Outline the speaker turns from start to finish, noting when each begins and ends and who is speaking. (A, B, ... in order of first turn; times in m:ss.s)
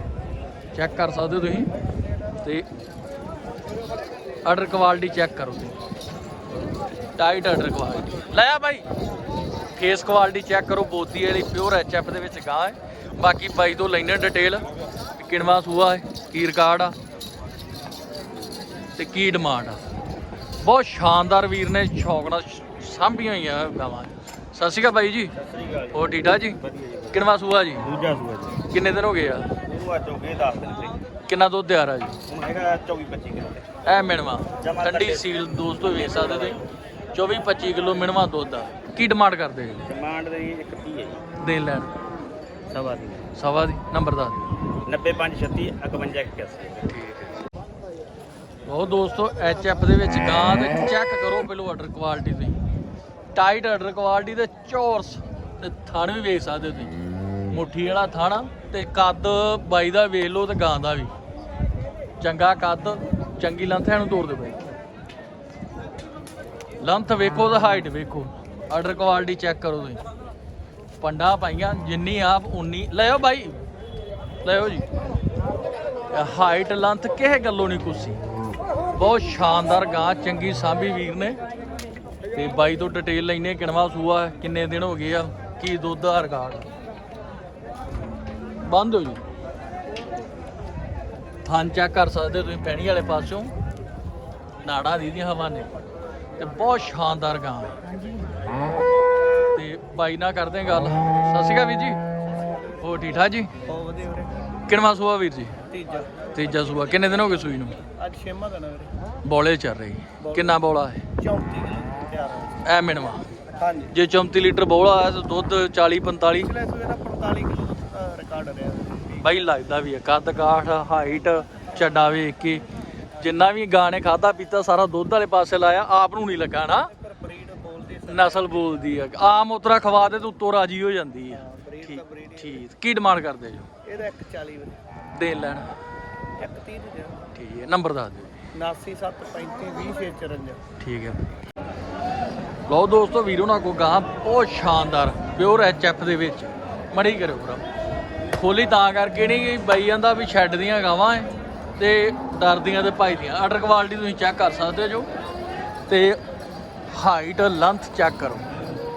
0:00.7-0:01.7 A
0:04.4-0:05.8 A
0:07.2-0:08.8 A
0:09.7-0:14.6 A
0:15.2-0:16.9 A
0:19.0-0:19.8 A
0:20.6-0:25.3 A
0:25.4-0:27.2 B
0:25.9-0:26.6 A
0:27.1-0:27.8 A
0:27.8-0:28.6 B
0:28.7-0:29.5 A
0:29.6-0:30.9 B
0:31.3-0:32.2 A
0:32.3-0:33.6 B
0:33.8-0:36.6 A
0:34.6-0:36.6 B
0:37.1-0:39.9 A
0:39.8-0:41.2 B
0:41.4-0:41.9 A
0:42.7-0:43.3 B
0:43.4-0:44.4 A
0:44.8-0:46.9 B
0:46.9-0:47.4 A
0:48.6-0:52.6 A
0:53.3-0:56.9 A
0:57.5-1:01.1 A
1:02.2-1:04.6 A
1:06.8-1:10.0 A
1:11.0-1:13.6 A
1:14.4-1:14.8 A
1:16.1-1:18.2 A
1:18.9-1:21.4 A
1:22.3-1:26.7 A
1:28.6-1:29.2 A
1:31.4-1:33.5 A
1:34.6-1:35.7 A
1:36.4-1:37.8 A
1:39.5-1:42.0 A
1:42.8-1:43.5 A
1:43.7-1:44.4 C
1:44.7-1:45.5 A
1:45.7-1:46.1 C
1:46.3-1:47.8 A
1:48.0-1:48.9 C
1:49.2-1:51.0 A
1:51.2-1:52.5 C
1:52.6-1:53.2 A
1:53.6-1:53.9 C
1:53.9-1:56.5 A
1:56.5-1:59.2 C
1:59.2-2:02.6 A
2:03.2-2:06.9 A
2:06.9-2:08.5 C
2:07.2-2:08.1 B
2:08.1-2:13.7 A
2:11.3-2:11.9 C
2:11.9-2:12.6 B
2:13.9-2:14.7 C
2:15.1-2:15.7 A
2:16.4-2:17.2 C
2:17.3-2:18.4 A
2:18.7-2:20.6 C
2:20.8-2:21.4 A
2:22.7-2:27.6 A
2:28.3-2:35.1 A
2:35.9-2:36.2 A
2:36.9-2:38.4 A